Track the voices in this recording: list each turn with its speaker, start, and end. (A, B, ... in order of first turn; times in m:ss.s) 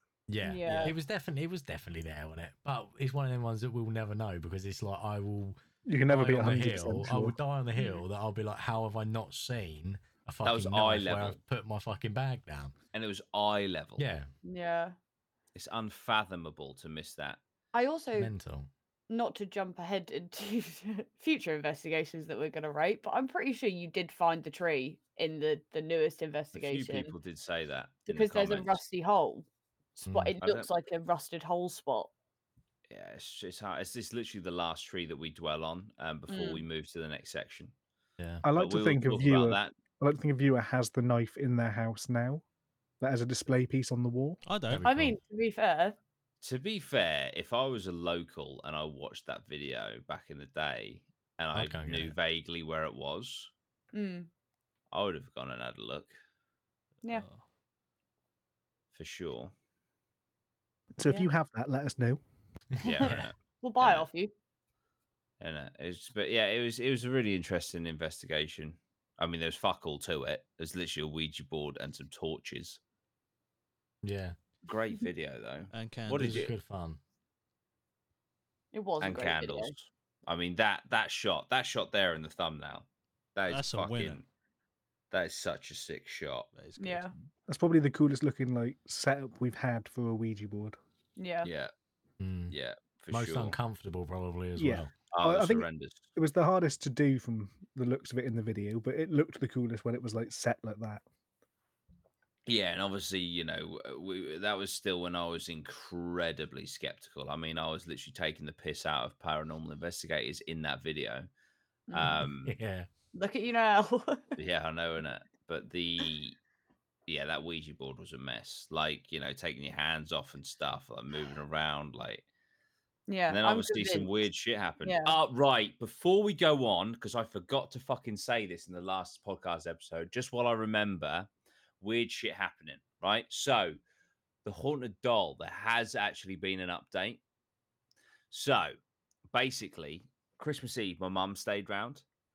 0:00.3-0:12.7 A
0:00.4-0:00.9 B
0:05.9-0:07.4 C
0:07.8-0:08.1 B
0:10.4-0:11.4 D
0:12.9-0:14.1 D
0:14.0-0:14.3 A
0:14.4-0:15.0 B
0:15.5-0:17.4 D
0:17.7-0:18.3 B
0:18.2-0:18.7 A
0:19.1-0:27.1 B
0:26.6-0:28.8 D
0:28.1-0:29.5 B
0:30.0-0:30.7 D
0:30.1-0:30.3 A
0:30.1-0:32.1 B
0:32.9-0:37.7 D
0:36.3-0:36.6 B
0:38.2-0:38.4 A
0:38.4-0:42.4 C
0:38.6-0:39.8 D
0:43.0-0:44.4 C
0:44.5-0:44.8 E
0:44.7-0:45.2 A
0:44.8-0:46.0 B
0:46.4-0:53.5 D
0:51.5-0:52.2 A
0:53.9-0:54.3 B
0:54.9-0:56.1 D
0:57.1-0:57.4 E
0:58.9-0:59.5 D
1:01.0-1:02.2 C
1:02.8-1:04.1 D
1:02.8-1:04.3 B
1:03.0-1:03.3 A
1:05.4-1:12.8 D
1:14.0-1:14.4 A
1:14.7-1:16.5 D
1:15.7-1:16.5 E
1:16.2-1:17.0 A
1:18.7-1:19.7 B
1:19.0-1:24.2 D
1:23.5-1:24.2 E
1:25.1-1:26.5 D
1:26.5-1:27.1 E
1:26.8-1:27.1 B
1:27.5-1:30.8 C
1:31.2-1:31.5 B
1:31.4-1:31.7 D
1:32.2-1:32.5 A
1:32.5-1:33.6 D
1:33.1-1:34.9 A
1:34.6-1:41.0 C
1:35.1-1:36.1 D
1:42.5-1:51.3 D
1:51.9-1:52.2 B
1:51.9-1:52.6 D
1:52.0-1:52.9 A
1:53.1-1:54.2 B
1:54.4-1:56.4 D
1:57.1-2:02.2 D
2:03.1-2:04.1 B
2:03.3-2:11.3 D
2:04.8-2:05.1 B
2:11.8-2:13.8 D
2:14.4-2:17.2 D
2:18.3-2:18.8 D
2:19.3-2:22.0 D